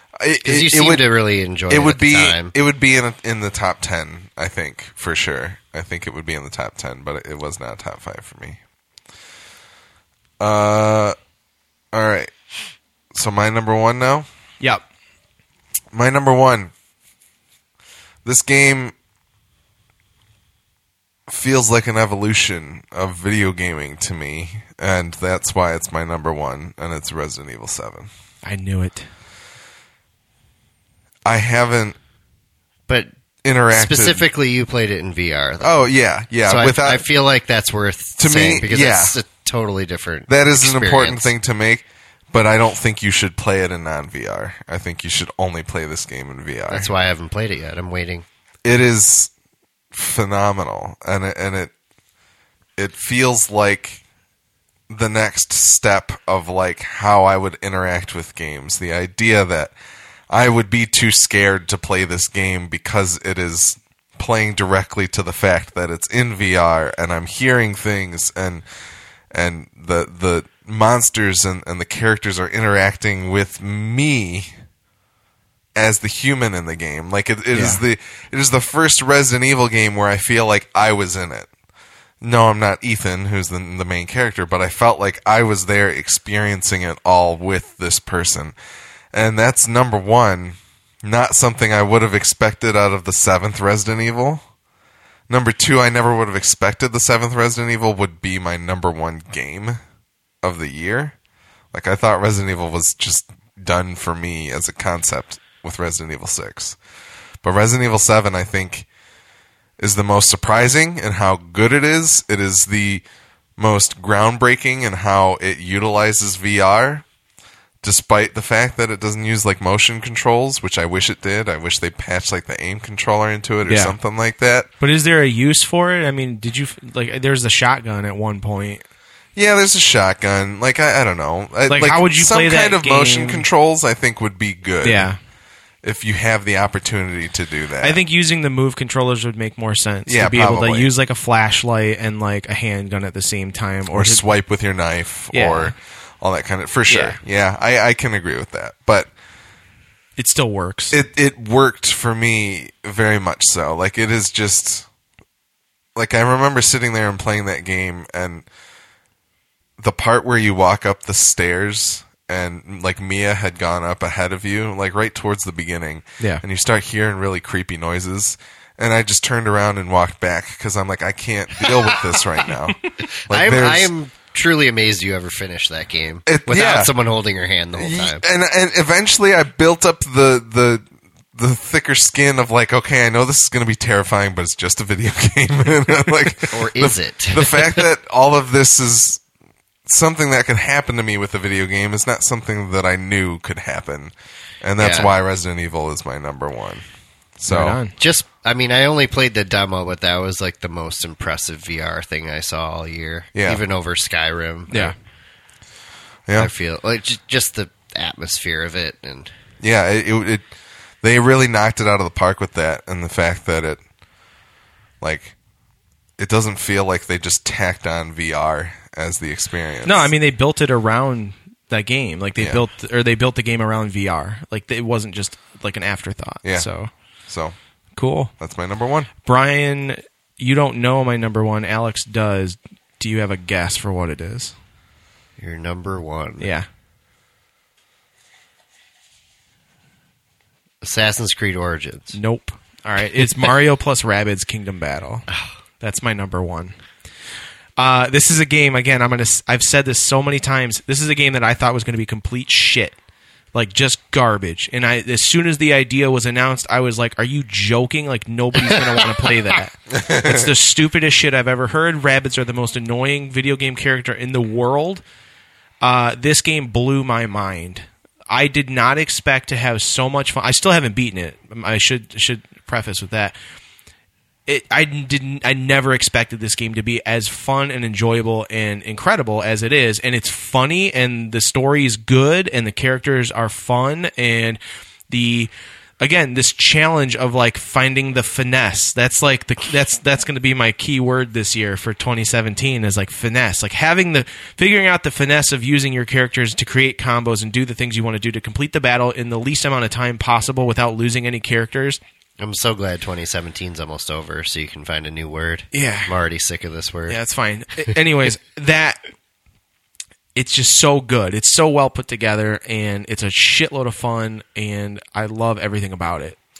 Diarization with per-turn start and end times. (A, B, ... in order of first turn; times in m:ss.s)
0:00.2-0:01.0 A
0:00.4-0:02.5 B
0:01.7-0:08.6 A
0:10.4-0:11.1 A
0:11.9-0:12.3 A
0:13.1-0:14.2 A
0:15.9-0:16.7 A
0:18.2-0:18.9 A
0:21.3-0:28.1 A
0:28.4-0:29.0 C
0:31.2-0:32.0 A
0:33.4-0:34.2 A
0:33.7-0:35.8 B
0:35.6-0:37.0 A
0:36.4-0:41.3 B
0:38.2-0:39.2 A
0:40.3-0:46.9 A
0:46.7-0:48.2 B
0:48.6-0:49.3 A
0:49.9-0:51.7 A
0:52.8-0:54.0 A
0:54.9-0:59.7 A
1:00.3-1:08.6 A
1:09.3-1:14.5 A
1:15.8-1:21.5 A
1:17.5-1:17.8 C
1:22.2-1:28.5 A
1:29.1-1:34.4 A
1:35.3-1:39.8 A
1:40.4-1:41.1 A
1:41.7-1:46.8 A
1:47.4-1:48.9 A
1:49.8-1:53.0 A
1:53.6-1:57.0 A
1:57.8-2:04.7 A
2:03.7-2:03.9 C
2:04.8-2:08.8 C
2:09.4-2:15.1 A
2:11.7-2:13.4 C
2:14.8-2:15.2 C
2:15.8-2:18.0 A
2:17.8-2:24.2 C
2:20.1-2:20.9 A
2:23.9-2:29.1 A
2:25.3-2:25.7 C
2:26.9-2:27.2 C
2:30.2-2:30.9 C
2:30.9-2:34.9 A
2:36.0-2:38.4 A
2:39.8-2:53.9 A
2:53.3-2:58.2 B
2:56.2-2:56.9 A
2:57.8-3:09.2 A
3:06.5-3:07.8 B
3:09.8-3:16.8 A
3:14.8-3:15.1 B
3:17.4-3:17.8 A
3:17.5-3:17.9 C
3:18.0-3:24.9 B
3:23.3-3:23.6 A
3:26.4-3:29.3 B
3:29.6-3:30.4 A
3:31.0-3:33.8 A
3:35.0-3:35.3 A
3:36.2-3:40.1 A
3:39.8-3:46.9 C
3:42.4-3:42.6 A
3:47.3-3:47.5 A
3:48.0-3:48.3 C
3:48.4-3:49.1 A
3:49.2-3:54.5 C
3:55.4-3:56.5 B
3:56.4-3:56.7 C
4:00.8-4:02.2 B
4:02.1-4:05.3 C
4:05.8-4:06.7 C
4:07.8-4:13.0 C
4:13.5-4:25.0 C
4:18.7-4:19.0 B
4:19.9-4:20.5 A
4:25.8-4:33.3 C
4:34.5-4:44.6 C
4:45.1-5:02.0 C
5:02.4-5:07.2 B
5:05.7-5:06.1 C
5:07.1-5:09.0 C
5:10.3-5:16.4 C